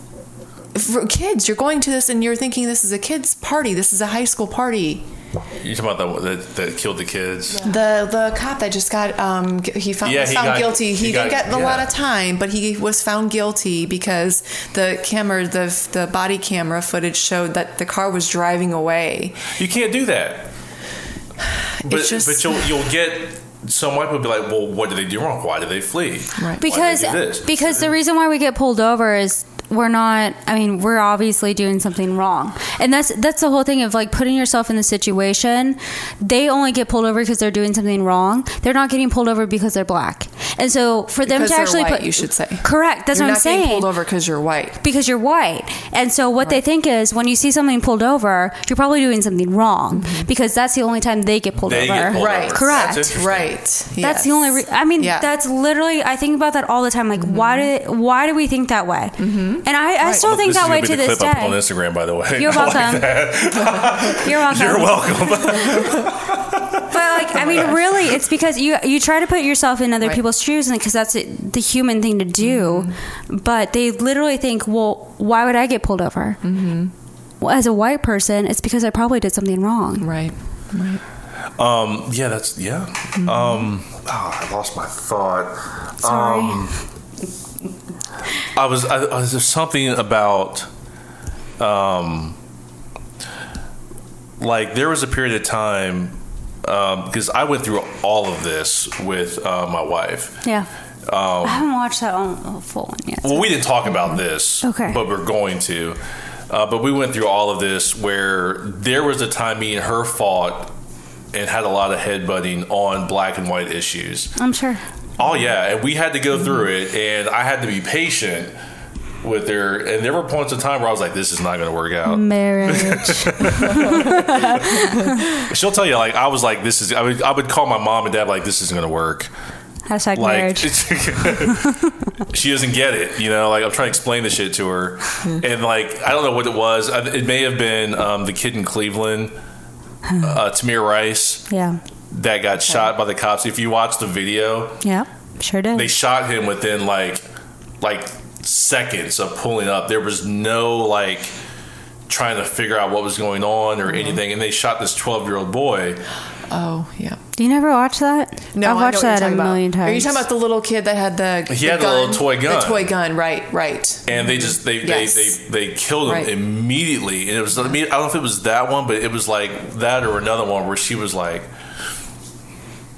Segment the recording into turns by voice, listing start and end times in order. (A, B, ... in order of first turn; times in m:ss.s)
0:00.7-0:05.0 A
0:05.6-0:07.7 B
0:07.6-0:19.5 A
0:10.0-0:11.9 B
0:19.6-0:20.5 B
0:21.8-0:22.7 A
0:21.8-0:27.9 B
0:26.6-0:43.9 C
0:41.2-0:44.8 A
0:44.8-0:53.2 C
0:49.9-0:50.3 A
0:51.6-0:53.5 B
0:52.1-0:55.3 A
0:54.0-1:01.6 C
0:57.2-0:57.7 A
0:59.2-1:00.3 A
1:00.2-1:07.8 B
1:02.4-1:03.2 C
1:03.8-1:06.1 C
1:06.8-1:16.4 C
1:12.4-1:12.9 A
1:16.4-1:16.9 A
1:17.4-1:20.1 C
1:20.0-1:21.0 A
1:21.6-1:26.8 B
1:23.2-1:23.5 A
1:26.0-1:26.7 C
1:28.5-1:30.7 B
1:31.6-1:32.4 B
1:34.4-1:40.4 B
1:41.0-1:41.6 B
1:41.4-1:43.5 C
1:43.2-1:46.0 B
1:44.6-1:45.0 C
1:46.5-1:50.7 B
1:51.3-1:54.3 B
1:54.4-1:54.8 C
1:55.2-1:58.5 B
1:59.2-2:09.3 B
2:02.0-2:05.4 C
2:09.9-2:11.9 C
2:10.2-2:19.3 B
2:20.0-2:20.3 C
2:20.2-2:21.5 B
2:21.5-2:21.8 C
2:22.1-2:24.8 B
2:24.8-2:25.9 C
2:25.7-2:27.2 B
2:27.8-2:31.3 B
2:32.1-2:36.0 B
2:33.9-2:34.2 A
2:36.5-2:37.2 A
2:37.4-2:40.2 C
2:38.6-2:45.4 A
2:41.5-2:42.9 B
2:44.1-2:51.5 B
2:46.0-2:46.3 A